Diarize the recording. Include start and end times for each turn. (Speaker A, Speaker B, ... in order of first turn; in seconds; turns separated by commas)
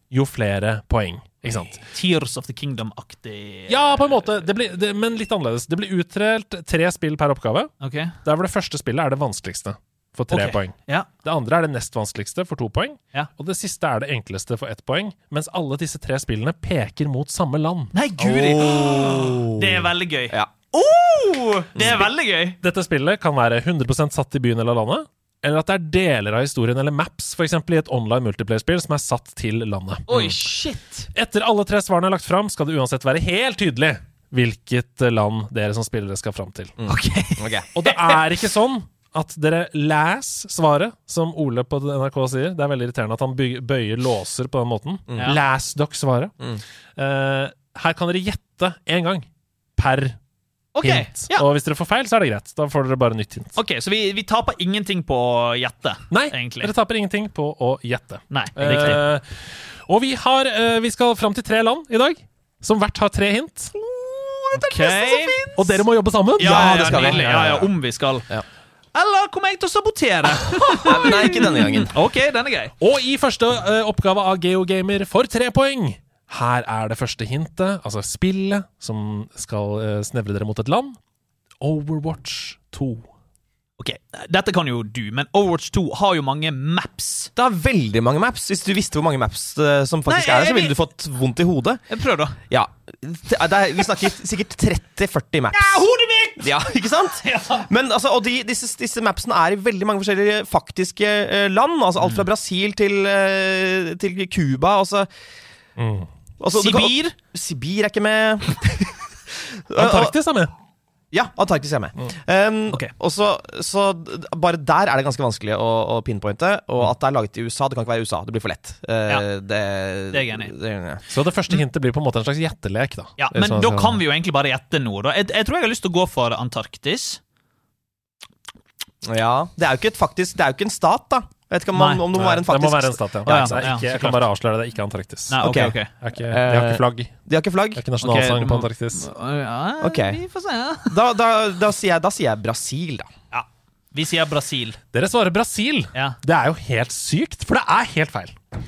Speaker A: 0.1-1.8, Speaker B: 1.9-4.2, Speaker A: 3.7-17.9, Speaker B: 7.8-8.2, Speaker B: 10.3-11.1, Speaker B: 17.9-22.6, Speaker C: 18.2-20.5, Speaker C: 21.8-22.0, Speaker A: 22.6-30.1, Speaker B: 30.1-31.1, Speaker C: 30.1-30.4, Speaker A: 31.1-36.7, Speaker C: 36.8-37.7, Speaker B: 36.9-38.2, Speaker A: 37.8-46.3, Speaker C: 45.1-45.3, Speaker A: 47.0-49.2, Speaker A: 49.8-50.2, Speaker B: 50.8-51.4, Speaker A: 50.8-53.5, Speaker B: 53.5-56.7, Speaker A: 56.1-59.2, Speaker B: 58.3-59.0, Speaker A: 59.9-63.7, Speaker C: 63.7-65.7, Speaker B: 64.7-65.4, Speaker A: 65.5-67.7, Speaker B: 66.4-68.3, Speaker C: 66.4-67.6, Speaker B: 68.9-72.7, Speaker C: 70.8-71.9, Speaker A: 72.8-81.0, Speaker A: 81.6-83.1, Speaker B: 83.8-87.3, Speaker C: 87.3-91.8, Speaker B: 90.1-90.8, Speaker B: 91.9-92.4, Speaker C: 92.5-95.9, Speaker B: 95.5-96.5, Speaker C: 96.4-105.1, Speaker B: 97.2-97.7, Speaker A: 105.8-106.1, Speaker C: 106.4-109.0, Speaker B: 106.5-107.1, Speaker C: 109.7-110.1, Speaker A: 109.8-110.5, Speaker C: 111.1-121.0, Speaker B: 120.1-120.5, Speaker A: 121.1-124.0, Speaker B: 123.2-127.2, Speaker C: 129.0-133.5, Speaker B: 131.7-132.0, Speaker A: 132.1-137.2, Speaker B: 133.2-134.2, Speaker B: 135.3-135.9, Speaker C: 135.4-137.8, Speaker A: 137.7-139.1, Speaker B: 138.0-140.9, Speaker C: 139.8-140.2, Speaker C: 140.9-143.1, Speaker B: 143.3-144.8, Speaker A: 144.9-148.3